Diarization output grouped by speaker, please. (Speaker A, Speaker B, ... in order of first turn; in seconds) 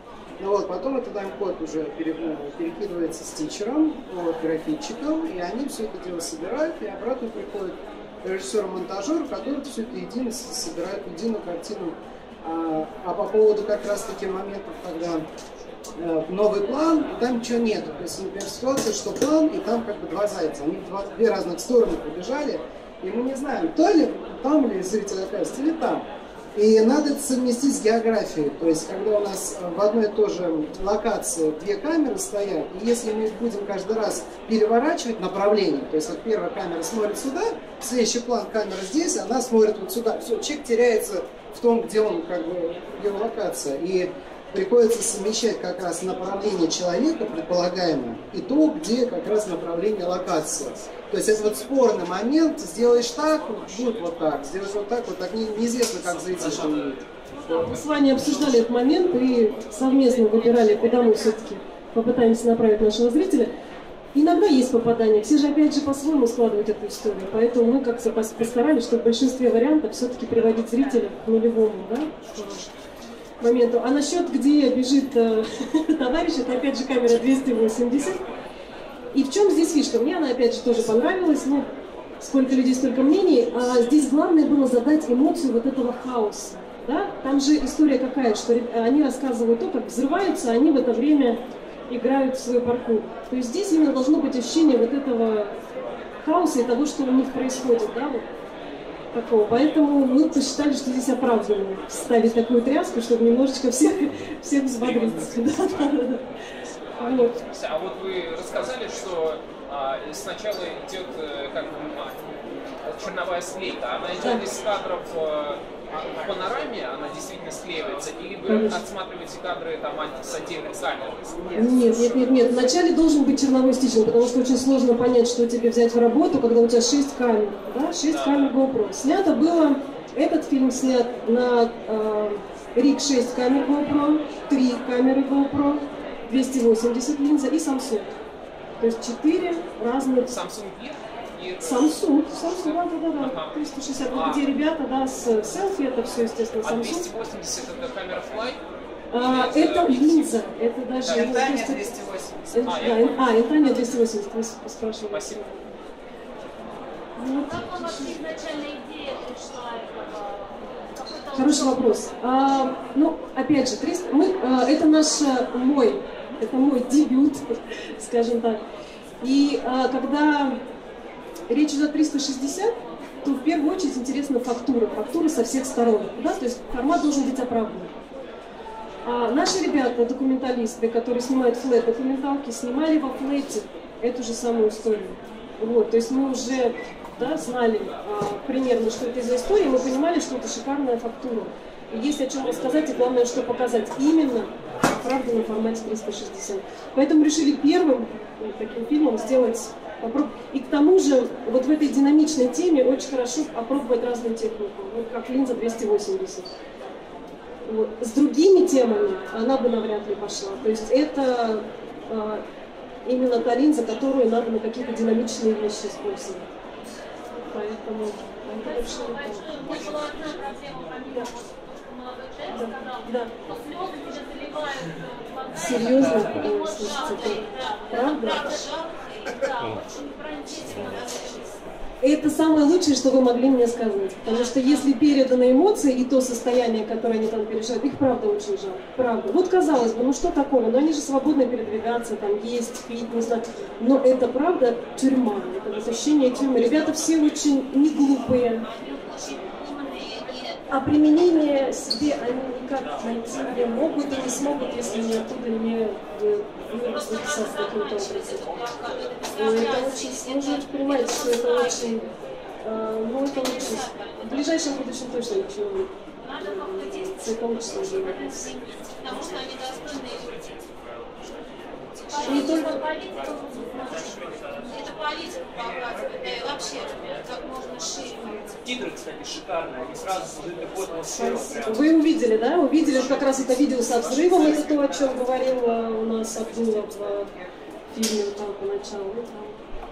Speaker A: 0.4-15.3, 16.0-58.0
Speaker B: 57.6-63.5, 64.1-72.7, 73.4-78.2, 79.1-95.6, 96.2-98.3, 99.1-106.3, 107.0-107.4, 114.2-114.5, 118.5-118.8, 121.5-138.1, 138.8-140.4, 141.6-147.1, 149.1-151.9, 152.6-155.7, 157.2-158.2, 161.3-168.6, 169.2-170.6, 171.5-177.9, 179.0-206.5, 207.6-212.4, 213.1-216.5, 217.5-219.6, 222.5-223.3, 225.5-228.5, 232.0-249.1, 250.7-258.6, 259.4-262.1, 262.6-268.5, 272.2-272.7, 281.1-287.3, 287.9-289.6
Speaker C: 107.0-112.3, 112.8-121.3, 128.1-128.5, 140.3-144.5, 146.6-148.6, 149.2-150.4, 151.0-151.6, 152.7-153.1, 155.1-155.4
Speaker D: 151.1-152.3, 278.6-281.9
Speaker E: 157.4-161.9, 218.6-231.6, 248.9-250.6, 257.1-261.9, 263.4-264.2, 266.3-267.2, 267.9-270.5, 272.1-278.6